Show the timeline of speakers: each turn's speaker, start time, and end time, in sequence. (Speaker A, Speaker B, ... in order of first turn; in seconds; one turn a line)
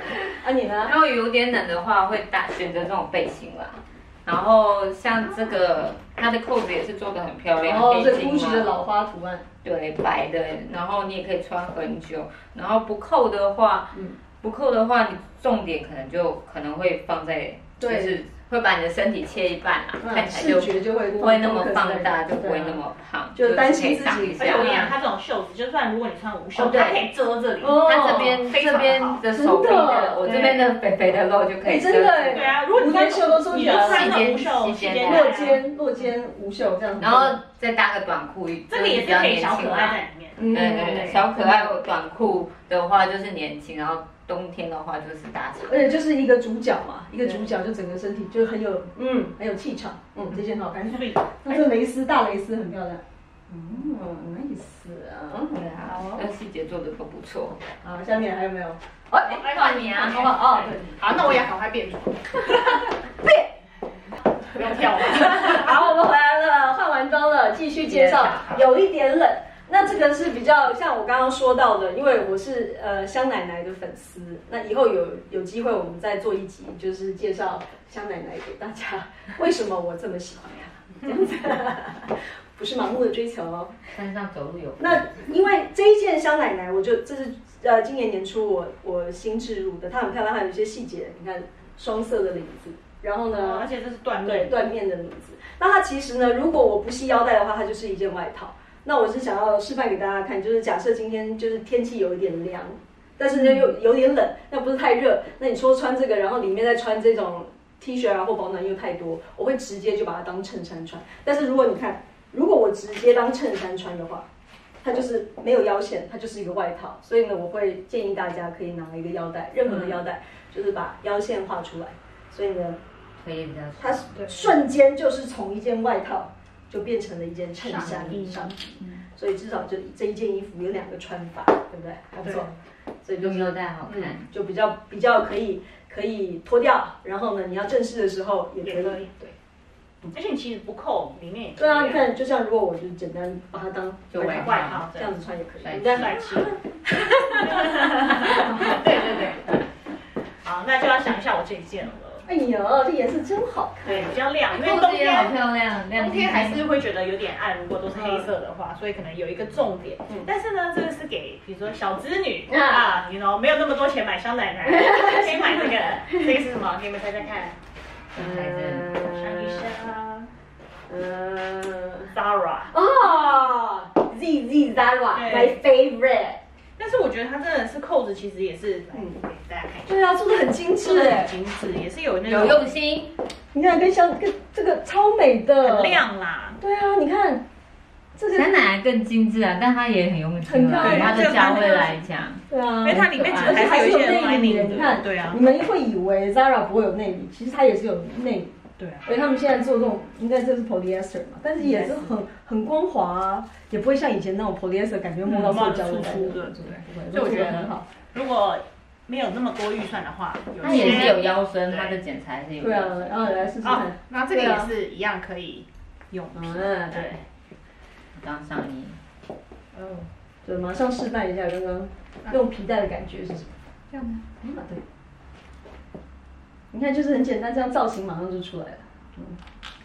Speaker A: 0.3-0.9
Speaker B: 0.8-8.7
Speaker A: 7.6-9.4
Speaker B: 9.6-24.9
Speaker A: 13.9-14.2
Speaker A: 17.8-18.2
Speaker A: 20.0-22.8
Speaker A: 23.4-24.9
Speaker C: 24.4-27.9
Speaker B: 26.5-27.1
Speaker A: 27.6-28.4
Speaker B: 27.6-32.6
Speaker C: 28.4-29.2
Speaker A: 29.3-30.7
Speaker A: 31.6-34.2
Speaker C: 32.3-35.6
Speaker B: 33.5-35.6
Speaker A: 35.0-37.4
Speaker B: 37.0-45.9
Speaker C: 38.7-40.5
Speaker A: 40.4-41.8
Speaker A: 45.6-55.6
Speaker C: 50.9-51.7
Speaker B: 55.5-57.6
Speaker C: 55.8-56.3
Speaker A: 57.8-60.9
Speaker B: 59.2-60.3
Speaker C: 59.4-62.8
Speaker C: 64.4-65.9
Speaker A: 65.1-83.8
Speaker B: 67.8-68.6
Speaker B: 83.9-85.2
Speaker A: 84.8-93.7
Speaker C: 93.3-94.7
Speaker A: 94.2-114.2
Speaker A: 114.8-122.8
Speaker C: 119.7-120.0
Speaker B: 123.2-124.5
Speaker A: 123.8-139.0
Speaker C: 127.6-128.5
Speaker C: 132.2-132.5
Speaker B: 133.2-134.3
Speaker C: 138.6-139.3
Speaker C: 140.1-142.1
Speaker A: 141.6-148.9
Speaker B: 144.1-144.8
Speaker C: 144.1-145.1
Speaker B: 145.6-146.2
Speaker C: 145.7-146.6
Speaker C: 147.4-149.6
Speaker C: 150.4-152.2
Speaker A: 152.2-154.2
Speaker C: 153.8-155.4
Speaker B: 154.5-156.7
Speaker C: 155.9-167.6
Speaker A: 157.9-158.3
Speaker A: 162.5-163.0
Speaker A: 164.7-165.7
Speaker B: 168.1-168.9
Speaker A: 168.2-169.7
Speaker C: 169.1-170.3
Speaker A: 170.9-172.1
Speaker C: 172.1-172.7
Speaker A: 172.7-176.4
Speaker C: 175.1-175.6
Speaker C: 176.8-180.0
Speaker A: 178.9-179.2
Speaker A: 179.9-181.3
Speaker C: 180.8-182.7
Speaker B: 182.2-183.1
Speaker A: 183.5-186.1
Speaker C: 185.6-186.6
Speaker A: 186.6-187.4
Speaker A: 188.2-188.7
Speaker B: 188.3-192.4
Speaker A: 190.4-191.4
Speaker C: 190.8-192.1
Speaker A: 192.5-207.9
Speaker C: 192.8-195.4
Speaker B: 193.2-193.8
Speaker C: 198.8-199.1
Speaker C: 201.6-202.2
Speaker C: 205.2-212.0
Speaker B: 210.6-213.5
Speaker A: 210.7-211.1
Speaker A: 212.6-214.0
Speaker C: 213.6-217.2
Speaker B: 214.3-214.7
Speaker A: 216.3-217.2
Speaker B: 218.1-219.0
Speaker C: 219.7-220.1
Speaker A: 220.4-223.5
Speaker C: 223.9-224.2
Speaker A: 224.4-224.8
Speaker A: 226.7-229.4